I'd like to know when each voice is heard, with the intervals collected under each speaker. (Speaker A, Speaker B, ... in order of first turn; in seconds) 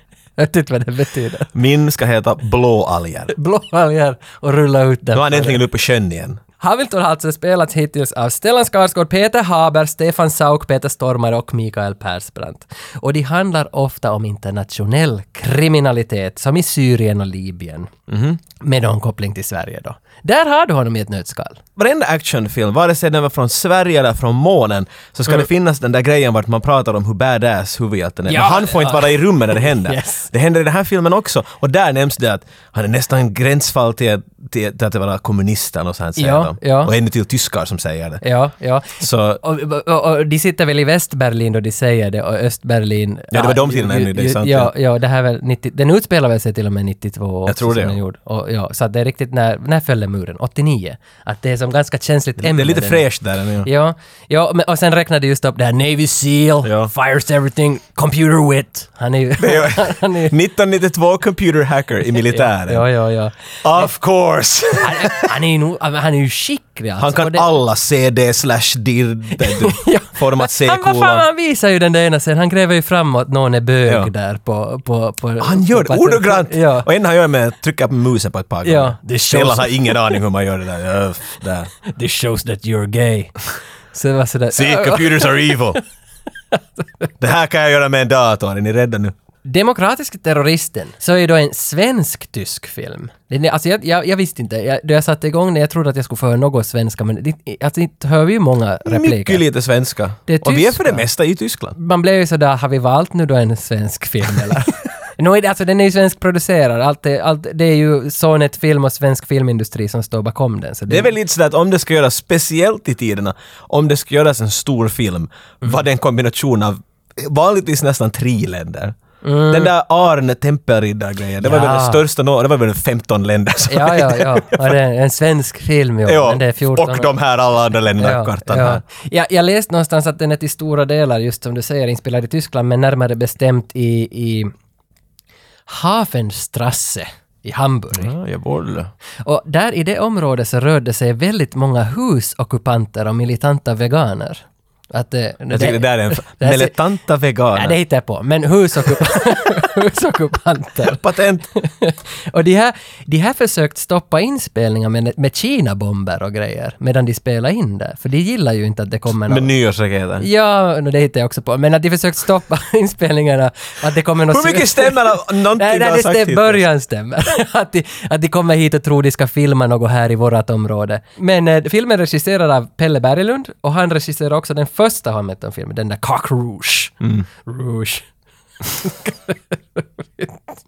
Speaker A: 0.4-1.5, 3.3-5.6, 6.6-17.9, 18.6-21.6, 28.3-30.3, 36.2-36.9, 38.2-53.0, 53.6-60.3, 62.1-63.9, 64.8-67.5, 69.4-76.9, 78.6-80.2, 81.9-83.3, 83.9-85.6, 86.5-87.1, 89.4-99.4, 100.3-101.0, 101.7-111.1, 119.2-119.7, 121.4-122.0, 123.7-127.1, 128.0-134.5, 135.7-138.1, 139.2-146.7, 147.5-151.0, 151.5-159.5, 160.2-178.1, 178.6-180.4
Speaker B: 1.5-3.3, 5.1-6.4, 18.1-18.4, 21.8-38.2, 39.0-39.4, 43.3-44.7, 47.5-48.0, 52.4-53.7, 56.6-56.9, 59.4-62.9, 63.6-65.3, 67.0-71.2, 73.8-74.1, 75.4-81.7, 84.5-85.8, 87.2-89.1, 98.8-101.8, 110.9-119.0, 119.5-124.7, 126.0-128.8, 137.9-138.9, 145.5-147.8, 150.8-151.5, 159.3-160.2, 164.3-166.6, 177.0-177.2